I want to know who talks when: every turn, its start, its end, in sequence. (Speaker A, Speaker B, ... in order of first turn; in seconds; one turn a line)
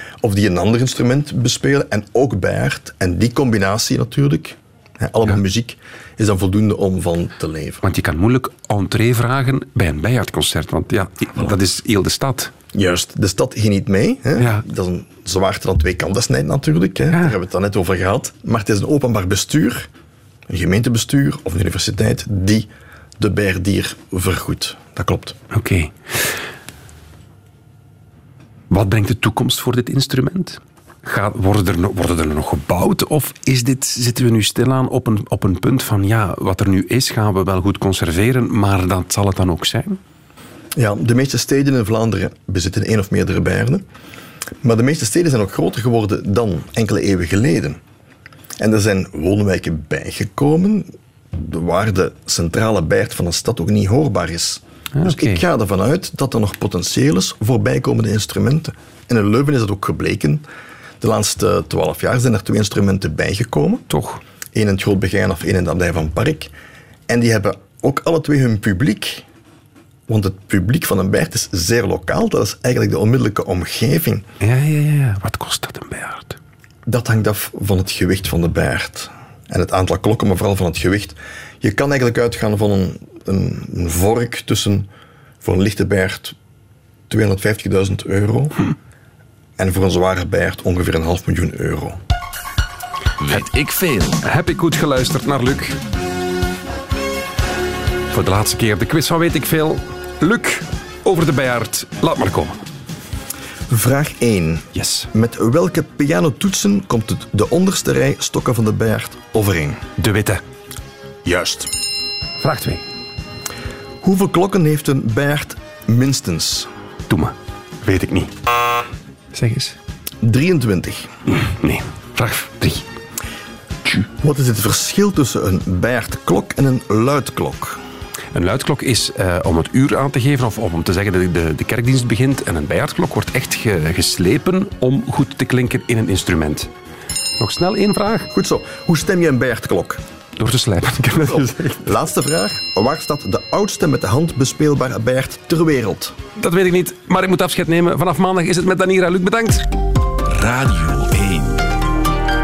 Speaker A: 0.2-7.8
Speaker B: 7.8-12.5
Speaker A: 12.7-19.9
Speaker B: 14.4-14.6
Speaker A: 20.5-22.7
Speaker A: 23.2-25.4
Speaker B: 25.5-26.3
Speaker B: 28.7-40.0
Speaker A: 40.8-43.8
Speaker A: 44.6-47.8
Speaker A: 48.6-60.4
Speaker B: 54.9-55.4
Speaker A: 61.0-63.9
Speaker B: 63.9-64.2
Speaker A: 64.5-66.5
Speaker A: 67.1-69.2
Speaker A: 70.1-74.2
Speaker B: 74.4-76.4
Speaker A: 76.8-84.9
Speaker A: 85.4-86.3
Speaker A: 87.1-88.6
Speaker A: 89.6-92.0
Speaker C: 93.2-94.2
Speaker B: 94.2-95.8
Speaker B: 98.1-102.6
Speaker A: 103.7-109.8
Speaker B: 104.7-105.1
Speaker B: 110.0-110.4
Speaker A: 111.2-111.7
Speaker B: 112.4-112.8
Speaker A: 114.0-116.7
Speaker B: 117.1-118.3
Speaker B: 119.3-119.8
Speaker A: 120.2-121.1
Speaker B: 121.3-122.9
Speaker A: 124.2-127.8
Speaker B: 128.3-136.7
Speaker B: 137.4-138.3
Speaker A: 138.3-140.0
Speaker B: 140.4-141.9
Speaker A: 141.3-146.2
Speaker B: 146.4-149.7
Speaker C: 150.3-151.6